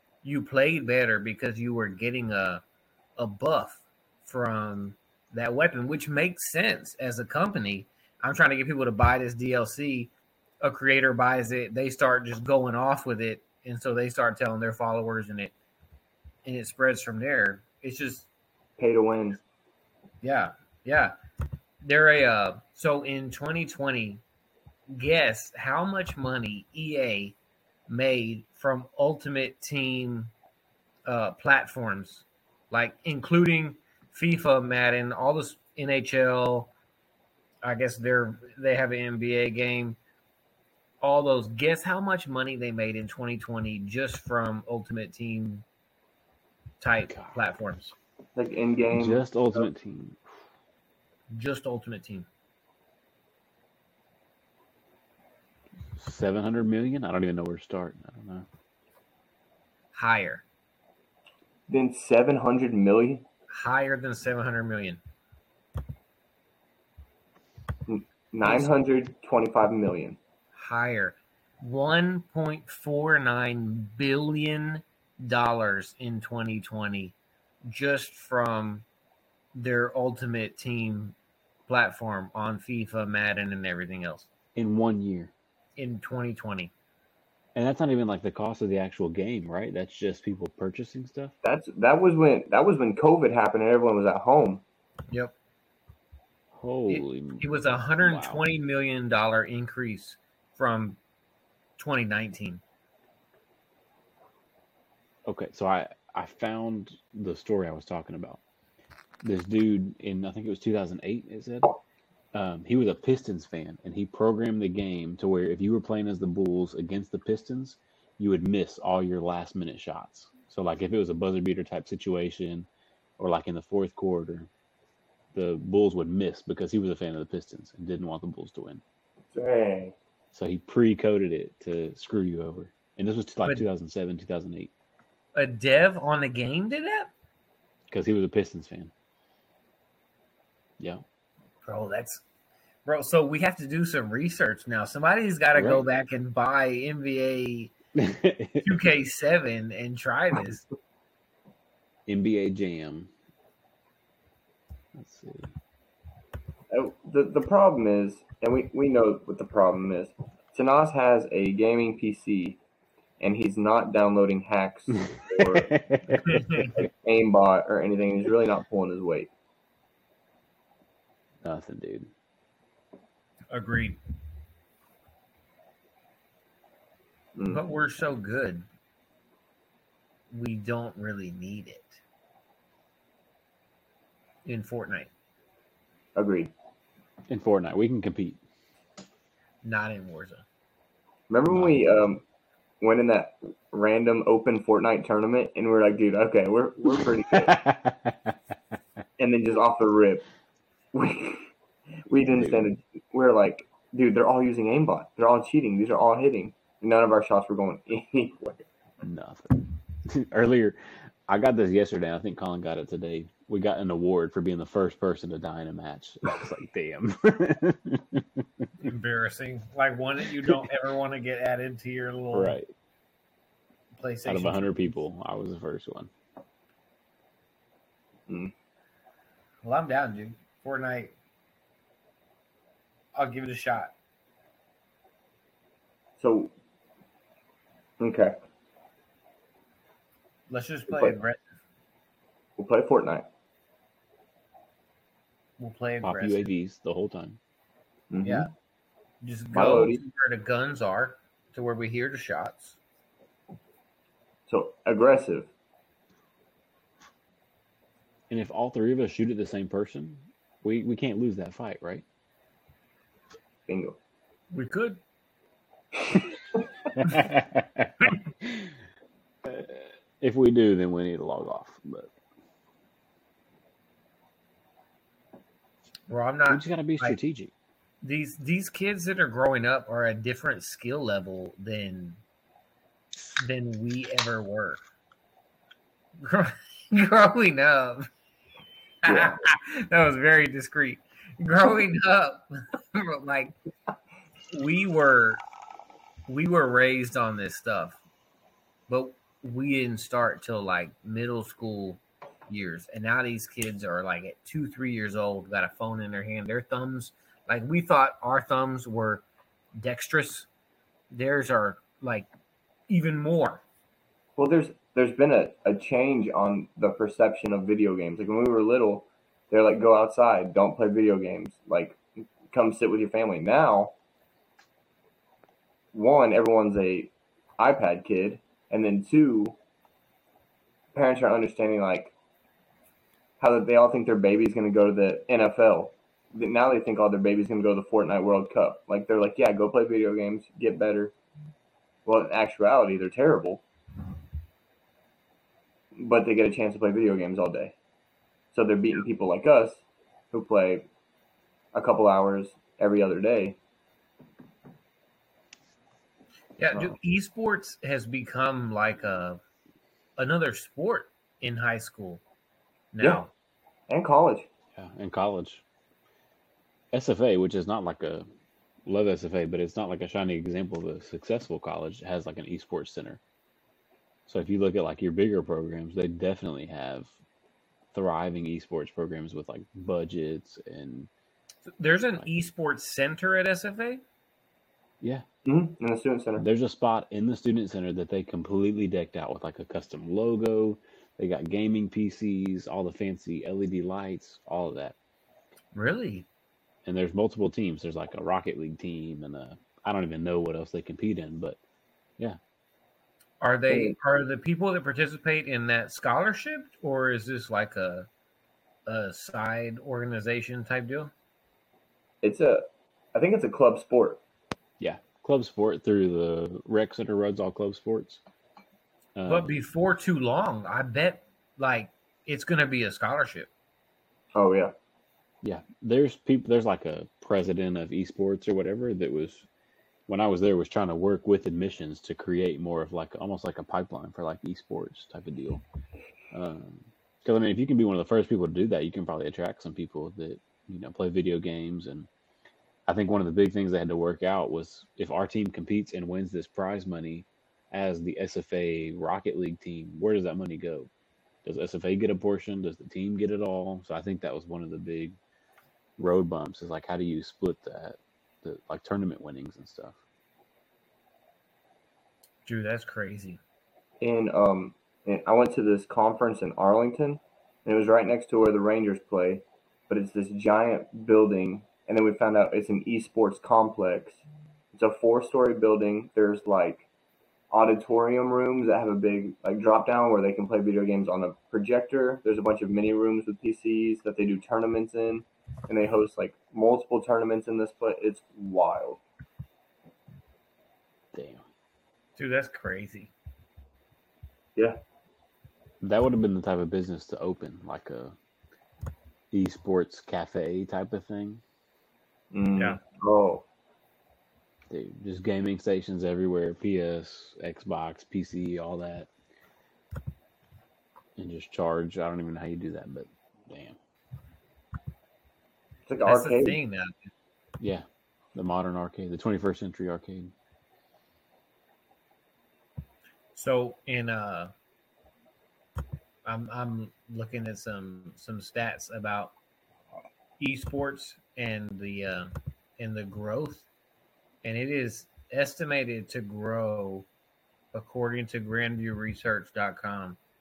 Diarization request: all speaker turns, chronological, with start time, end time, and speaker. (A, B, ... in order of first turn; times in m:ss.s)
0:00.2-0:02.6 A
0:03.2-0:15.5 A
0:16.4-0:18.3 A
0:18.8-0:19.4 B
0:20.2-0:21.1 A
0:21.8-0:24.2 A
0:24.9-0:27.4 A
0:27.9-0:30.3 A
0:31.1-0:36.7 A
0:37.6-0:40.0 A
0:41.0-0:45.6 A
0:46.8-0:47.9 A
0:48.4-0:49.2 B
0:48.9-0:50.3 C
0:51.3-0:52.3 A
0:56.0-0:58.5 C
0:59.9-1:00.4 A
1:01.7-1:03.2 B
1:03.5-1:05.0 A
1:07.9-1:10.2 B
1:10.6-1:18.8 A
1:19.5-1:21.2 A
1:21.7-1:24.3 A
1:24.6-1:25.3 C
1:25.8-1:26.7 A
1:27.6-1:31.3 C
1:31.4-1:34.6 B
1:36.5-1:38.4 C
1:36.9-1:41.0 A
1:41.8-1:42.6 A
1:45.3-1:48.4 C
1:49.2-1:51.8 C
1:52.3-2:02.7 C
2:03.2-2:04.5 C
2:05.3-2:08.8 C
2:09.3-2:10.0 B
2:10.3-2:14.7 C
2:15.3-2:17.1 A
2:17.9-2:18.9 C
2:21.6-2:22.2 A
2:22.8-2:27.7 A
2:25.5-2:25.8 C
2:28.0-2:28.7 C
2:28.6-2:30.6 A
2:32.1-2:33.1 C
2:34.9-2:35.5 C
2:36.7-2:42.6 B
2:43.2-2:45.8 B
2:45.4-2:46.8 C
2:46.2-2:46.8 A
2:46.8-2:49.3 B
2:51.4-2:52.1 C
2:53.5-2:54.0 A
2:57.4-2:57.6 B
2:57.5-2:58.7 A
3:00.3-3:02.0 A
3:04.4-3:05.1 A
3:06.2-3:06.5 B
3:07.3-3:08.4 C
3:09.6-3:10.4 A
3:11.3-3:12.2 B
3:11.5-3:11.8 C
3:12.8-3:17.6 B
3:17.3-3:18.3 C
3:19.2-3:20.2 B
3:20.9-3:21.5 B
3:22.1-3:28.6 B
3:22.3-3:22.7 C
3:29.0-3:38.4 C
3:38.8-3:42.6 A
3:42.3-3:42.7 C
3:44.0-3:44.8 A
3:44.2-3:46.1 C
3:49.6-3:51.1 A
3:53.2-3:53.9 A
3:56.2-3:56.5 B
3:58.0-3:58.4 B
4:00.5-4:01.5 A
4:02.6-4:03.3 B
4:05.6-4:06.4 A
4:06.0-4:07.4 C
4:08.1-4:08.5 B
4:08.2-4:08.5 A
4:09.2-4:12.8 A
4:09.5-4:10.0 B
4:14.5-4:15.5 B
4:18.3-4:22.0 C
4:23.7-4:24.0 B
4:24.5-4:25.0 A
4:26.0-4:26.6 B
4:27.0-4:28.7 C
4:29.4-4:32.1 C
4:36.1-4:37.2 A
4:36.5-4:37.5 C
4:38.0-4:42.2 A
4:43.3-4:44.8 A
4:46.2-4:48.1 A
4:49.0-4:52.4 A
4:49.1-4:49.4 B
4:52.9-4:53.5 A
4:54.5-4:55.4 A
4:56.3-4:58.0 A
4:58.9-5:10.5 A
5:11.1-5:12.3 A
5:12.9-5:13.6 A
5:14.4-5:23.9 B
5:25.9-5:29.6 B
5:30.9-5:32.1 B
5:33.4-5:41.1 B
5:42.1-5:43.6 B
5:46.0-5:47.8 B
5:48.5-5:50.9 B
5:51.7-5:53.6 B
5:56.6-5:59.4 A
6:00.2-6:02.2 A
6:02.9-6:03.3 A
6:03.9-6:04.5 B
6:04.8-6:05.6 C
6:06.9-6:08.3 C
6:08.8-6:13.2 C
6:14.3-6:17.1 C
6:17.9-6:21.1 C
6:21.7-6:24.0 A
6:25.4-6:26.4 B
6:26.4-6:35.0 C
6:35.7-6:36.3 A
6:36.8-6:41.6 C
6:43.4-6:48.1 A
6:43.7-6:44.0 B
6:48.9-6:51.1 A
6:52.2-6:54.2 B
6:54.8-6:58.2 C
6:59.2-6:59.5 C
6:59.3-7:03.5 A
7:04.4-7:04.7 B
7:05.4-7:09.5 C
7:10.1-7:15.6 C
7:16.3-7:22.1 C
7:22.9-7:30.9 C
7:31.4-7:35.2 C
7:36.0-7:40.0 C
7:42.5-7:43.4 A
7:44.0-7:54.2 B
7:54.7-7:56.9 B
7:57.5-8:09.0 B
8:11.1-8:11.4 C
8:12.2-8:13.1 A
8:15.8-8:18.2 C
8:19.3-8:21.4 C
8:22.3-8:23.4 B
8:24.7-8:29.1 C
8:31.2-8:33.8 C
8:35.9-8:36.6 B
8:36.0-8:37.1 A
8:37.6-8:40.3 C
8:43.4-8:44.5 A
8:46.2-8:49.3 A
8:50.4-8:53.7 A
8:54.4-8:57.1 A
8:57.7-9:00.2 A